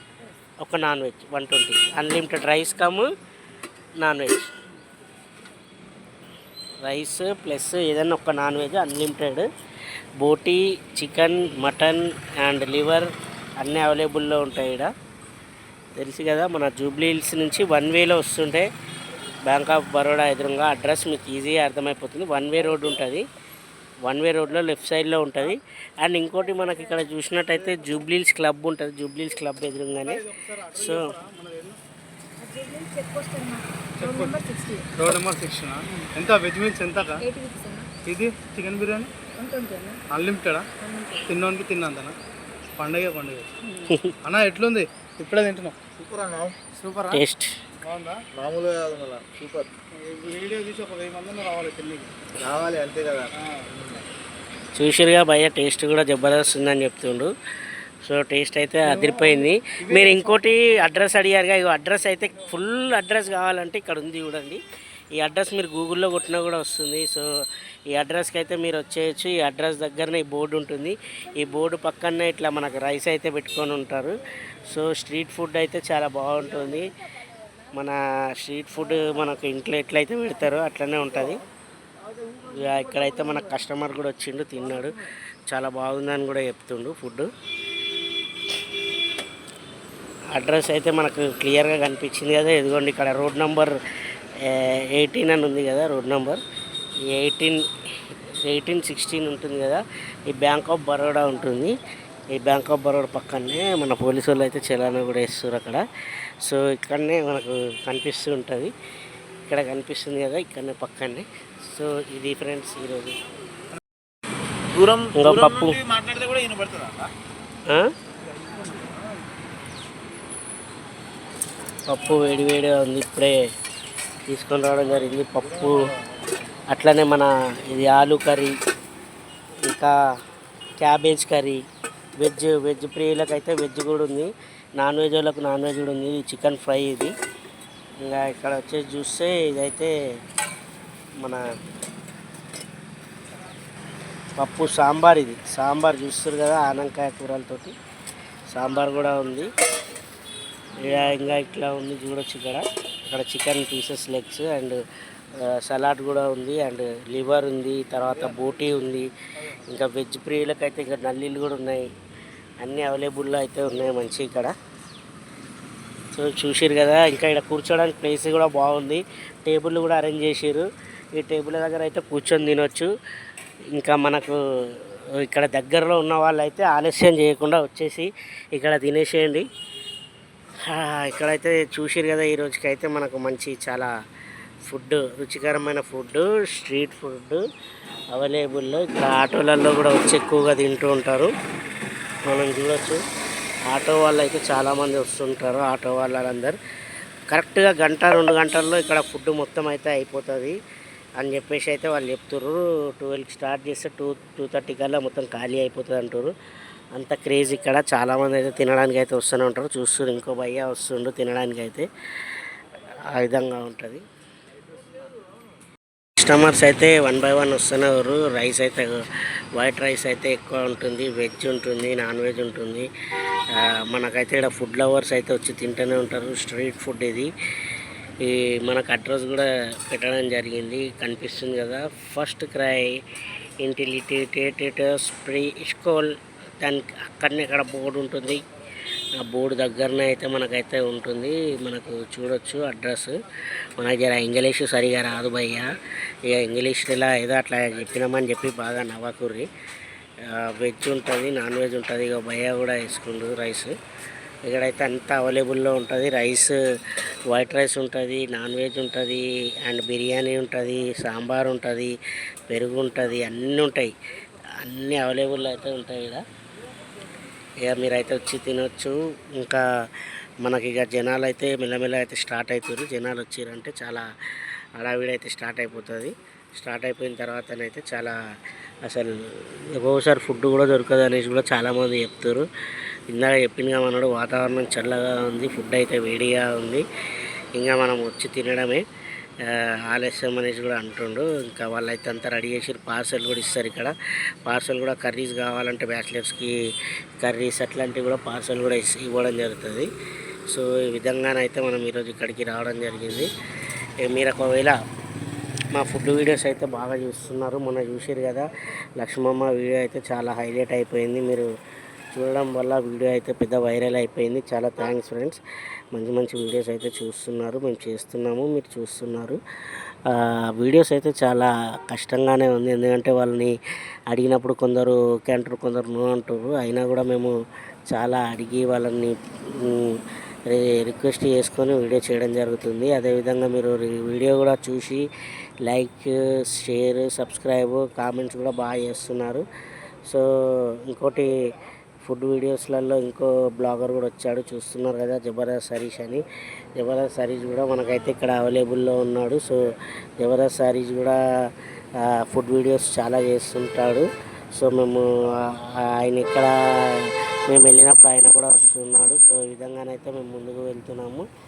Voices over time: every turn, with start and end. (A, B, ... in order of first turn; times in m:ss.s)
0:00.6-0:03.1 A
0:04.0-0:04.5 A
0:06.8-0:09.5 A
0:10.2-0:14.9 A
0:16.0-0:18.7 A
0:19.4-0:23.2 A
0:24.0-0:31.1 A
0:30.0-0:31.8 B
0:32.4-0:34.9 C
0:34.0-0:34.3 B
0:35.0-0:37.2 B
0:37.2-0:37.9 C
0:38.0-0:39.1 B
0:39.4-0:40.0 C
0:40.1-0:40.7 B
0:40.8-0:41.3 C
0:41.3-0:42.2 B
0:42.8-0:43.5 B
0:43.9-0:44.2 A
0:44.2-0:45.8 B
0:46.0-0:46.6 D
0:46.6-0:47.2 B
0:47.1-0:47.6 A
0:47.8-0:48.3 B
0:48.4-0:49.7 D
0:49.9-0:52.2 B
0:52.4-0:53.3 D
0:53.3-0:54.0 B
0:54.7-0:57.3 A
0:58.0-1:04.6 A
0:58.8-1:00.5 B
1:05.2-1:07.3 A
1:07.9-1:16.9 A
1:17.7-1:21.4 A
1:22.4-1:25.0 A
1:25.5-1:27.3 A
1:30.3-1:33.8 A
1:34.4-1:36.4 A
1:37.1-1:41.8 A
1:42.4-1:45.8 A
1:46.4-1:48.7 A
1:49.5-1:53.2 A
1:54.7-1:57.1 D
1:55.1-1:55.8 A
1:58.4-1:58.9 B
2:01.9-2:03.4 A
2:04.3-2:05.9 A
2:06.7-2:08.6 A
2:09.7-2:09.9 A
2:10.8-2:11.6 A
2:12.2-2:17.1 A
2:18.0-2:19.9 A
2:24.4-2:27.8 A
2:28.5-2:29.5 A
2:30.8-2:34.8 A
2:35.3-2:41.9 A
2:42.6-2:44.5 A
2:46.2-2:52.9 A
2:53.7-2:59.5 A
3:00.6-3:03.9 A
3:04.7-3:07.4 A
3:08.1-3:11.3 A
3:12.3-3:13.0 A
3:13.7-3:16.6 A
3:17.3-3:20.6 A
3:21.2-3:26.3 A
3:27.0-3:31.9 A
3:33.2-3:34.0 A
3:36.2-3:42.9 A
3:43.5-3:47.3 A
3:48.2-3:53.0 A
3:53.6-3:58.4 A
3:59.2-4:03.2 A
4:03.7-4:05.7 A
4:06.2-4:09.5 A
4:10.3-4:13.8 A
4:14.5-4:22.0 A
4:22.5-4:23.9 A
4:24.6-4:26.2 A
4:27.6-4:34.1 A
4:34.8-4:38.2 A
4:38.8-4:42.5 A
4:43.1-4:46.8 A
4:47.6-4:48.8 A
4:49.4-4:53.9 A
4:54.4-4:56.6 A
4:57.2-4:59.9 A
5:00.5-5:03.3 A
5:04.0-5:04.8 A
5:05.7-5:11.5 A
5:12.1-5:15.4 A
5:15.9-5:19.4 A
5:20.1-5:23.5 A
5:24.1-5:27.4 A
5:27.9-5:30.0 A
5:30.5-5:35.1 A
5:35.7-5:39.4 A
5:40.1-5:41.3 A
5:42.0-5:46.2 A
5:46.8-5:51.2 A
5:52.0-6:01.3 A